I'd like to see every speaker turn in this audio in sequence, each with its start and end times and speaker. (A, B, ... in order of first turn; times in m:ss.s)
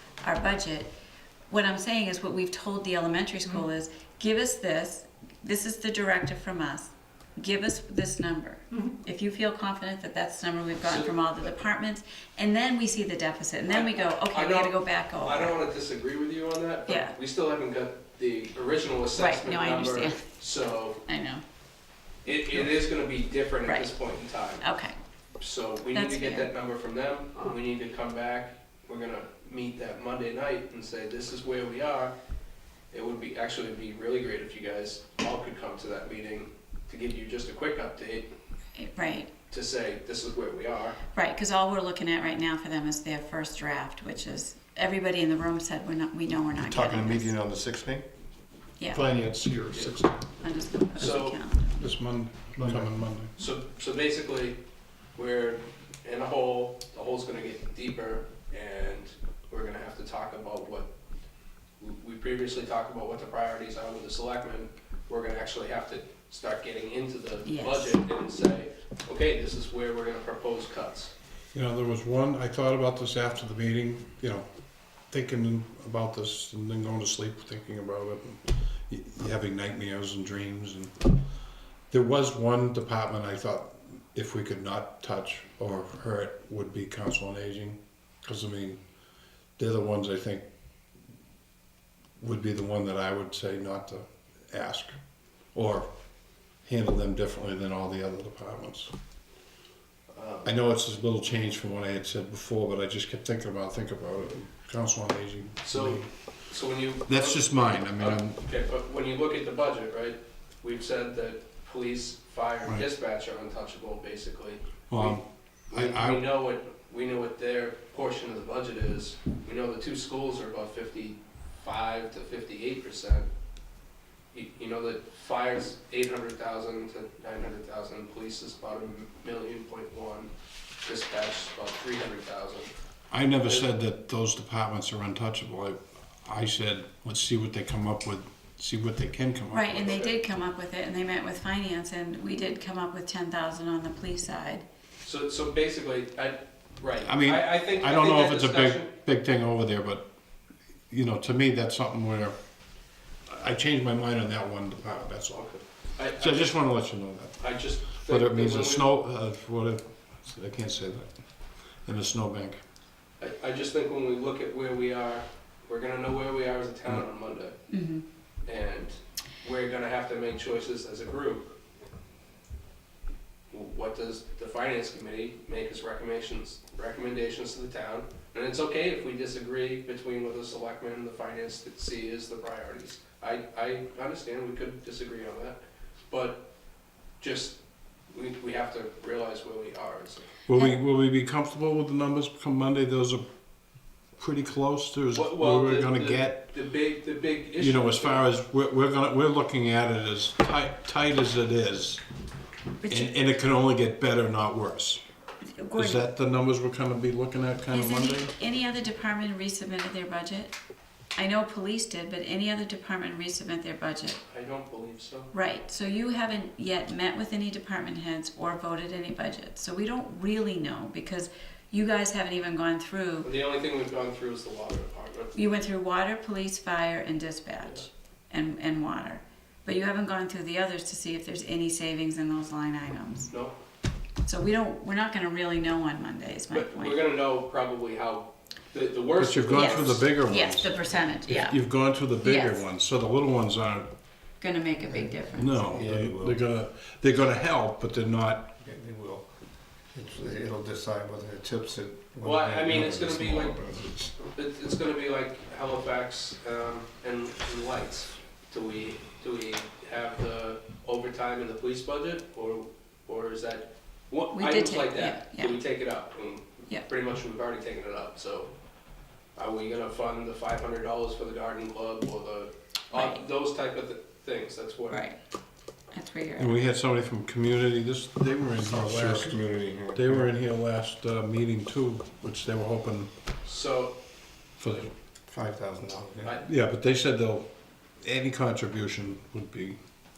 0:00.2-0:00.9 A
0:01.5-0:15.5 A
0:10.8-0:11.5 B
0:13.7-0:21.0 B
0:16.9-0:17.1 A
0:19.2-0:20.2 A
0:21.0-0:21.4 A
0:22.2-0:24.6 B
0:23.6-0:23.9 A
0:24.6-0:24.9 A
0:25.4-0:32.1 B
0:25.9-0:26.5 A
0:32.9-0:38.3 B
0:38.8-0:39.3 A
0:39.5-0:41.0 B
0:41.1-0:47.3 A
0:46.6-0:48.0 C
0:48.8-0:49.0 A
0:48.9-0:50.3 D
0:50.4-0:51.9 A
0:51.0-0:51.4 B
0:51.8-0:53.3 D
0:52.6-0:53.0 C
0:53.4-0:54.6 B
0:55.1-1:00.9 B
1:01.8-1:11.1 B
1:07.4-1:08.0 A
1:11.5-1:14.4 D
1:15.1-1:21.1 D
1:21.9-1:28.8 D
1:29.6-1:30.4 D
1:32.2-1:35.0 D
1:35.5-1:35.9 D
1:36.6-1:38.9 D
1:40.1-1:40.6 B
1:40.4-1:46.1 D
1:45.6-1:55.2 B
1:47.1-1:48.4 D
1:54.9-1:56.2 D
1:55.7-2:03.3 B
2:04.3-2:10.3 B
2:10.8-2:12.7 B
2:13.1-2:20.0 D
2:13.4-2:13.7 B
2:19.5-2:24.6 A
2:19.8-2:20.1 B
2:25.0-2:28.9 B
2:27.0-2:30.1 D
2:30.9-2:32.3 D
2:33.3-2:41.2 D
2:35.4-2:36.6 B
2:37.4-2:38.9 B
2:41.8-2:42.6 D
2:43.2-2:47.6 B
2:47.7-2:48.0 A
2:48.4-2:51.5 B
2:53.5-3:06.4 B
3:07.2-3:07.6 B
3:08.1-3:10.3 B
3:10.5-3:13.2 D
3:14.1-3:16.5 D
3:15.1-3:18.2 B
3:17.6-3:22.0 D
3:22.8-3:23.1 A
3:22.9-3:25.0 D
3:25.6-3:26.0 A
3:25.8-3:28.3 D
3:27.7-3:30.6 A
3:31.2-3:34.2 A
3:34.3-3:35.3 B
3:35.3-3:43.3 A
3:43.2-3:45.3 B
3:45.3-3:53.3 A
3:53.3-3:53.5 B
3:54.2-3:57.0 A
3:56.5-4:00.1 B
3:59.2-4:00.7 D
3:59.5-4:01.6 A
4:01.2-4:03.9 D
4:02.2-4:02.6 A
4:04.4-4:05.8 A
4:04.9-4:06.4 C
4:05.3-4:08.5 D
4:08.6-4:09.3 C
4:09.9-4:14.1 C
4:12.2-4:13.6 B
4:14.2-4:28.5 B
4:24.3-4:25.6 A
4:29.4-4:35.1 B
4:32.9-4:33.2 A
4:34.9-4:35.2 A
4:35.9-4:36.6 A
4:36.4-4:43.1 D
4:38.6-4:40.3 C
4:43.4-4:44.0 B
4:44.6-4:44.9 D
4:45.3-4:46.4 C
4:46.4-4:47.5 D
4:48.0-4:49.8 D